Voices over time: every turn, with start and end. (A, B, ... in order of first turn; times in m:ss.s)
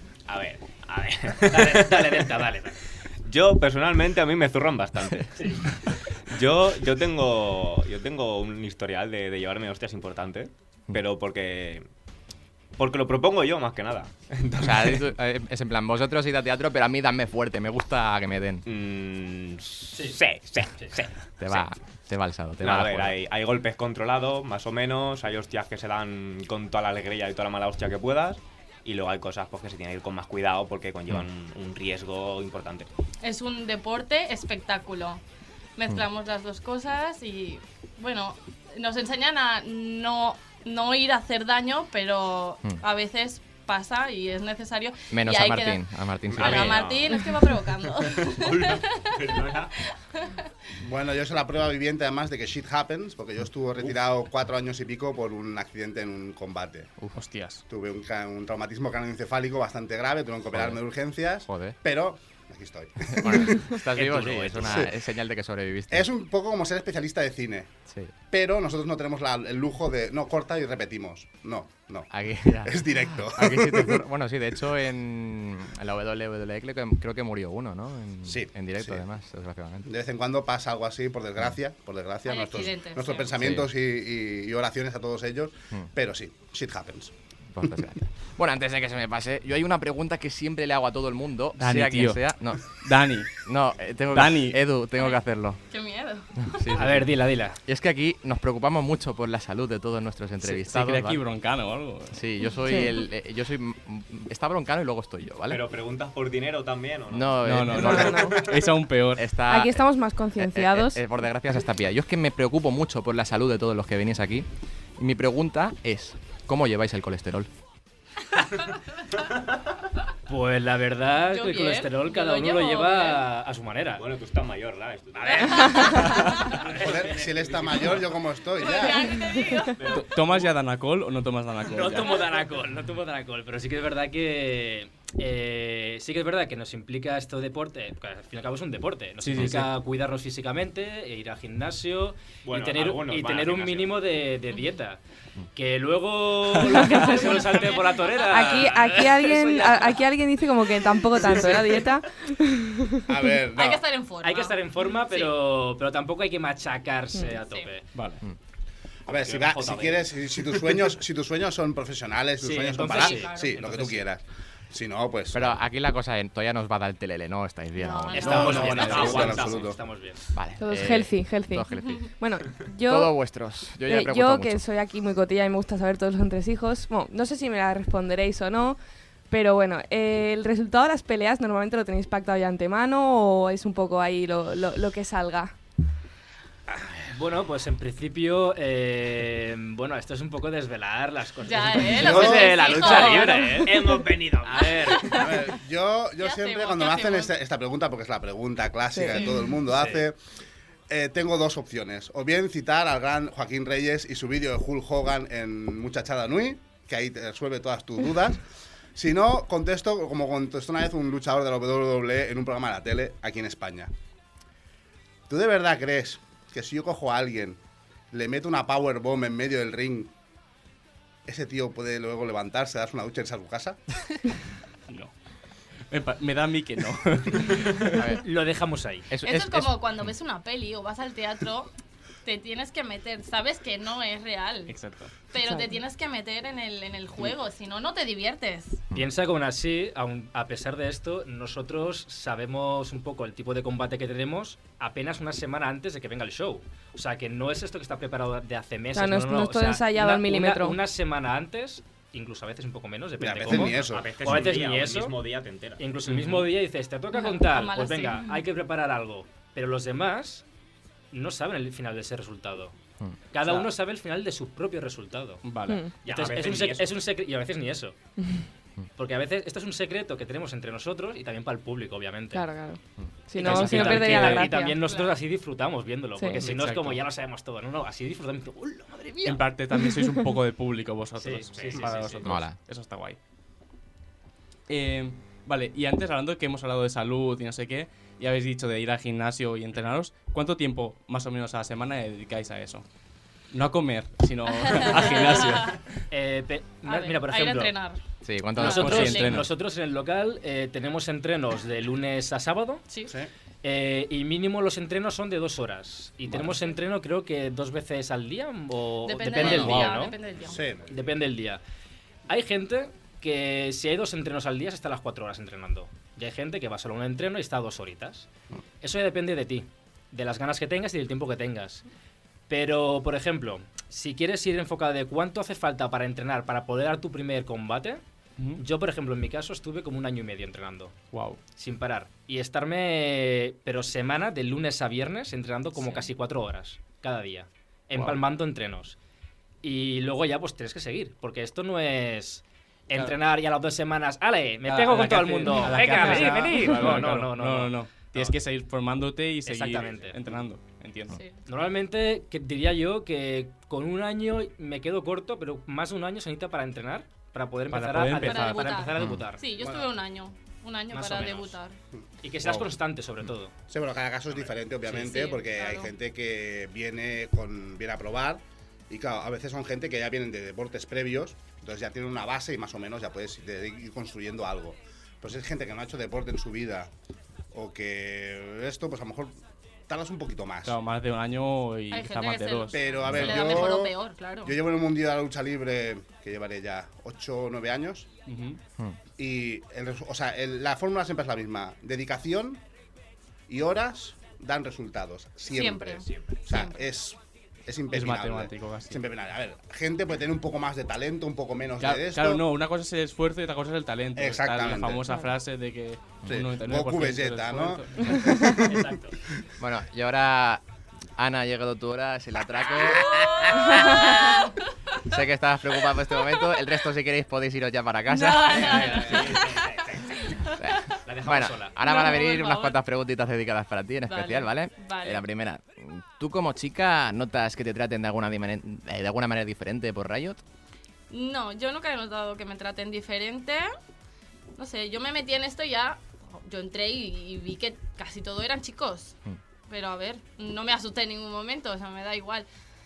0:00.3-0:11.8 A
0:01.5-0:02.6 B
0:12.8-0:15.1 A
0:14.6-0:18.6 C
0:18.6-0:21.7 A
0:21.4-0:23.2 C
0:22.6-0:32.9 A
0:33.2-0:35.2 D
0:35.8-0:45.8 D
0:45.1-0:46.8 C
0:46.3-0:47.2 A
0:46.4-0:49.4 D
0:47.9-0:49.7 A
0:50.8-0:56.9 E
0:57.1-0:57.6 F
0:57.7-1:03.7 E
1:00.5-1:00.8 C
1:01.5-1:01.7 C
1:03.1-1:06.1 C
1:04.0-1:04.8 A
1:04.1-1:04.4 B
1:04.6-1:04.9 E
1:05.9-1:07.7 E
1:08.3-1:12.1 E
1:12.1-1:19.9 C
1:12.6-1:14.0 E
1:18.2-1:19.0 E
1:19.8-1:27.1 E
1:22.2-1:23.4 D
1:23.4-1:23.7 C
1:27.5-1:32.8 C
1:31.6-1:33.3 F
1:33.3-1:35.6 C
1:34.1-1:34.6 F
1:34.9-1:36.5 D
1:36.4-1:41.2 C
1:36.7-1:37.6 B
1:40.4-1:42.2 F
1:42.1-1:45.6 C
1:42.6-1:42.9 G
1:45.5-1:48.7 A
1:47.1-1:48.1 C
1:47.4-1:49.3 F
1:47.7-1:48.5 G
1:49.2-1:57.5 C
1:49.4-1:51.0 G
2:00.3-2:04.0 B
2:01.2-2:03.3 D
2:04.0-2:08.0 A
2:05.2-2:07.9 B
2:05.5-2:06.6 D
2:06.7-2:09.2 E
2:08.6-2:09.8 D
2:09.8-2:10.4 A
2:09.9-2:12.2 F
2:11.7-2:25.0 B
2:19.2-2:19.7 F
2:22.4-2:24.0 A
2:25.5-2:30.0 B
2:27.1-2:28.1 D
2:28.3-2:33.1 G
2:33.1-2:33.9 E
2:33.5-2:35.4 D
2:34.2-2:37.8 B
2:37.4-2:37.7 D
2:37.9-2:38.2 F
2:39.1-2:45.6 E
2:39.1-2:40.5 B
2:42.4-2:44.0 B
2:42.7-2:43.7 D
2:45.3-2:49.2 C
2:47.8-2:49.0 D
2:48.1-2:50.2 B
2:48.2-2:49.8 E
2:48.3-2:49.6 A
2:50.3-2:52.1 C
2:50.6-2:53.1 G
2:52.9-2:54.6 C
2:53.8-2:58.8 G
2:59.3-3:05.5 G
3:06.7-3:15.1 B
3:11.4-3:14.1 D
3:11.9-3:12.8 E
3:12.9-3:15.1 A
3:14.8-3:15.6 D
3:15.1-3:20.2 E
3:16.2-3:17.3 D
3:18.9-3:19.3 G
3:19.1-3:19.4 D
3:19.7-3:20.0 B
3:20.9-3:28.4 E
3:28.9-3:33.9 E
3:35.3-3:37.6 E
3:38.1-3:40.1 E
3:41.2-3:43.8 E
3:45.9-3:48.0 F
3:48.0-3:48.2 C
3:48.2-3:49.1 B
3:49.1-3:50.1 C
3:49.2-3:51.7 D
3:52.2-3:54.7 D
3:54.7-3:55.1 F
3:55.3-3:58.9 D
3:58.9-4:15.2 B
4:08.9-4:10.8 G
4:13.2-4:14.5 E
4:13.5-4:15.8 A
4:15.8-4:20.4 B
4:16.1-4:16.5 F
4:17.1-4:18.4 D
4:21.1-4:22.7 B
4:23.3-4:25.4 B
4:25.4-4:25.8 F
4:25.7-4:25.9 G
4:26.0-4:26.9 A
4:26.0-4:28.0 B
4:29.0-4:32.4 B
4:32.3-4:34.7 G
4:33.4-4:39.5 B
4:33.4-4:34.5 F
4:34.8-4:35.2 D
4:36.2-4:36.5 G
4:36.4-4:37.0 F
4:39.2-4:43.2 F
4:41.2-4:42.4 B
4:41.5-4:41.9 A
4:42.2-4:42.6 C
4:44.7-4:52.8 F
4:53.5-4:55.8 F
4:54.6-4:55.7 D
4:56.1-4:57.7 B
4:56.8-4:58.0 D
4:58.2-4:59.2 C
4:58.5-4:59.4 D
4:58.6-4:59.5 F
4:58.6-5:02.8 B
5:03.6-5:10.2 B
5:09.0-5:10.6 D
5:09.4-5:09.8 E
5:10.4-5:10.8 E
5:10.9-5:11.6 B
5:12.3-5:18.3 B
5:18.8-5:21.8 B
5:22.5-5:28.0 B
5:28.6-5:31.0 B
5:31.1-5:31.4 F
5:31.6-5:39.0 B
5:37.9-5:38.2 F
5:39.6-5:48.3 B
5:44.6-5:51.2 F
5:45.8-5:46.6 A
5:49.4-5:50.2 B
5:51.1-5:51.4 D
5:51.4-5:59.4 B
5:57.7-5:58.9 F
5:58.1-6:01.8 D
5:59.6-5:59.9 E
6:00.9-6:01.5 B
6:02.2-6:03.5 B
6:03.7-6:16.9 E
6:04.9-6:05.9 D
6:17.5-6:19.3 E
6:19.9-6:20.8 E
6:20.6-6:22.8 F
6:21.9-6:24.6 D
6:22.7-6:28.1 E
6:28.3-6:28.6 F
6:29.2-6:32.6 E
6:33.5-6:42.4 E
6:35.5-6:36.8 D
6:36.0-6:36.3 A
6:37.9-6:39.0 F
6:41.8-6:48.4 F
6:44.2-6:45.0 E
6:46.3-6:48.9 E
6:48.6-6:49.1 A
6:49.6-6:50.6 C
6:51.2-6:54.2 C
6:53.6-6:54.5 D
6:55.0-6:58.9 C
6:58.1-6:59.6 D
6:58.8-7:00.1 A
7:00.6-7:10.4 C
7:01.1-7:01.7 A
7:01.2-7:01.5 B
7:01.8-7:02.8 D
7:04.1-7:05.2 D
7:11.1-7:13.7 D
7:14.6-7:19.2 D
7:19.7-7:22.5 D